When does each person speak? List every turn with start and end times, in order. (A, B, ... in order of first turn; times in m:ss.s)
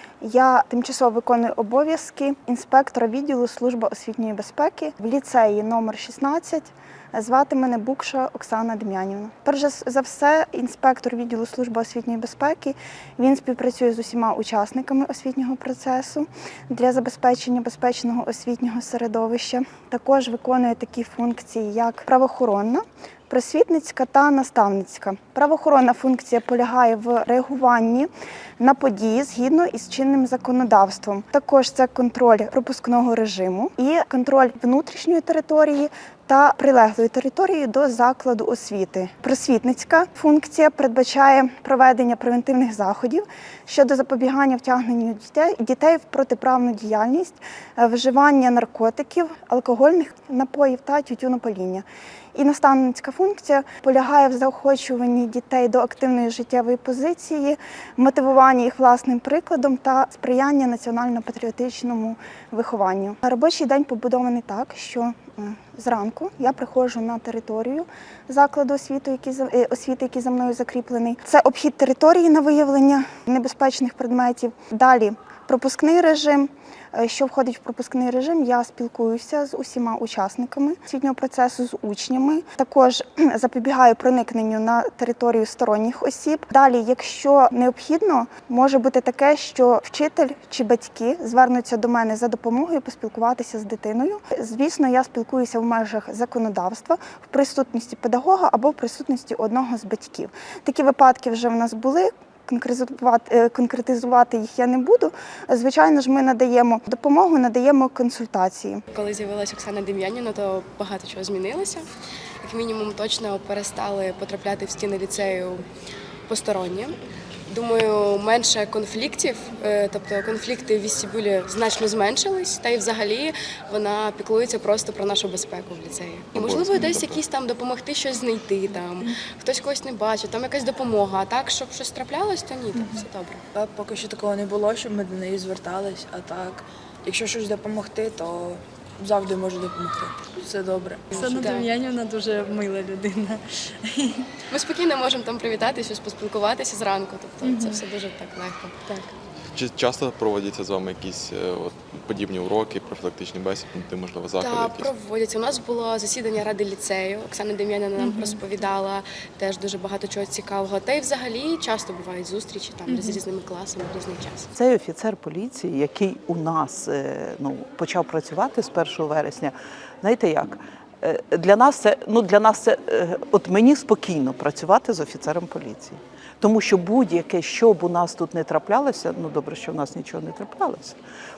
0:00.2-0:28.1 A
0:28.6-1:48.8 A
1:48.9-1:51.9 B
1:52.4-1:55.6 B
1:56.3-1:56.9 B
1:57.5-2:13.4 B
2:06.3-2:07.2 C
2:12.8-2:13.1 D
2:13.5-2:21.5 E
2:21.1-2:21.7 B
2:21.1-2:24.3 D
2:24.5-2:28.8 B
2:27.4-2:27.8 D
2:28.9-2:29.1 D
2:29.5-2:34.9 C
2:34.4-2:44.5 B
2:38.0-2:38.4 D
2:42.9-2:43.2 D
2:44.5-3:01.0 F